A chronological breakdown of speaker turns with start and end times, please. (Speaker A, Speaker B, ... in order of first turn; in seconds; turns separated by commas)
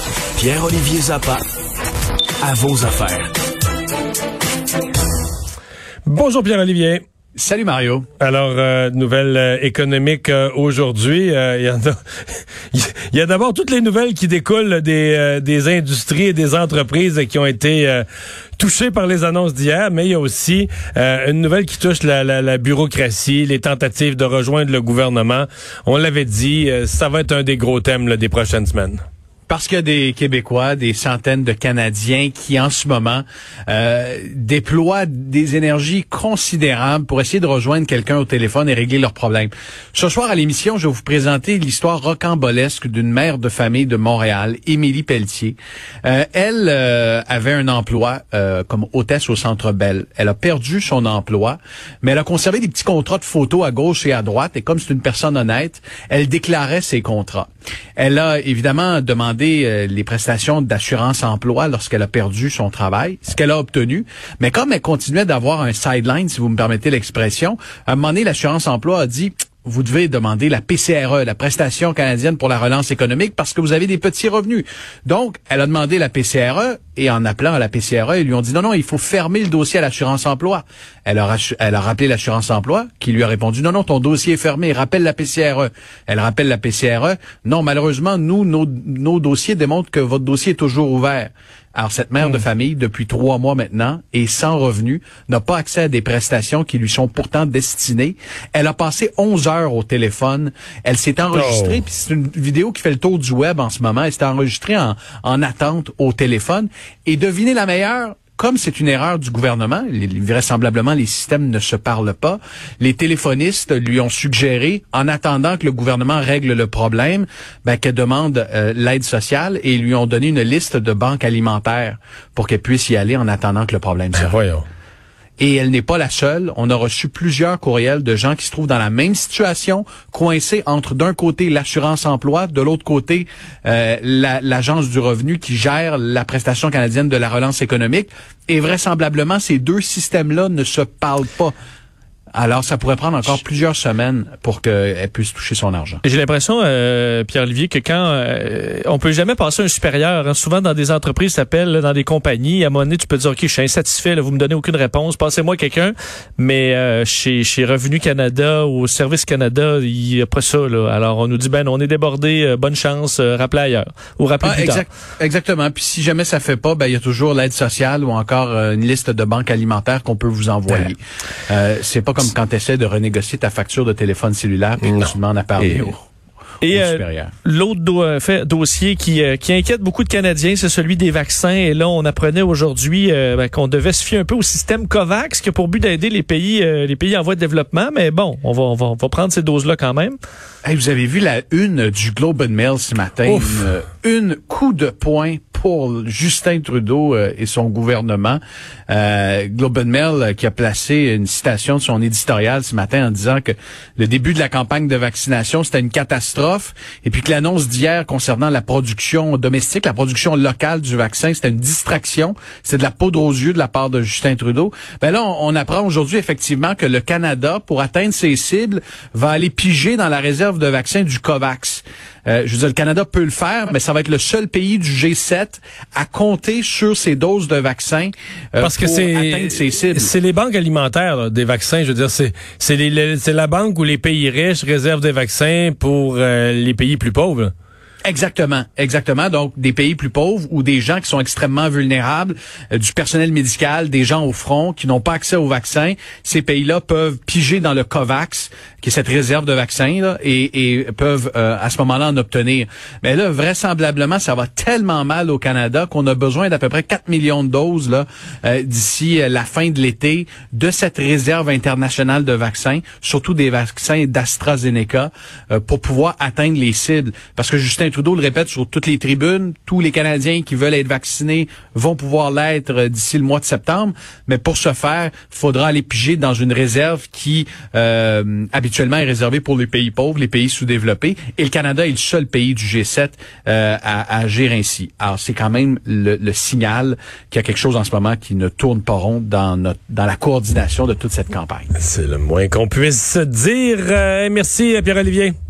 Speaker A: 0.4-1.4, Speaker A: 2.4-3.3, Speaker B: 6.1-7.0, Speaker C: 7.4-8.1, Speaker B: 8.2-12.0, Speaker B: 12.7-18.1, Speaker B: 18.6-29.0, Speaker C: 29.5-124.3, Speaker B: 101.3-101.8, Speaker B: 124.2-124.7, Speaker C: 125.4-141.6, Speaker C: 142.3-146.0, Speaker D: 146.0-164.8, Speaker C: 164.4-176.0, Speaker D: 176.6-190.2, Speaker C: 176.7-177.3, Speaker C: 190.7-230.1, Speaker B: 193.3-193.7, Speaker B: 228.6-237.5, Speaker C: 238.1-291.7, Speaker B: 291.8-295.4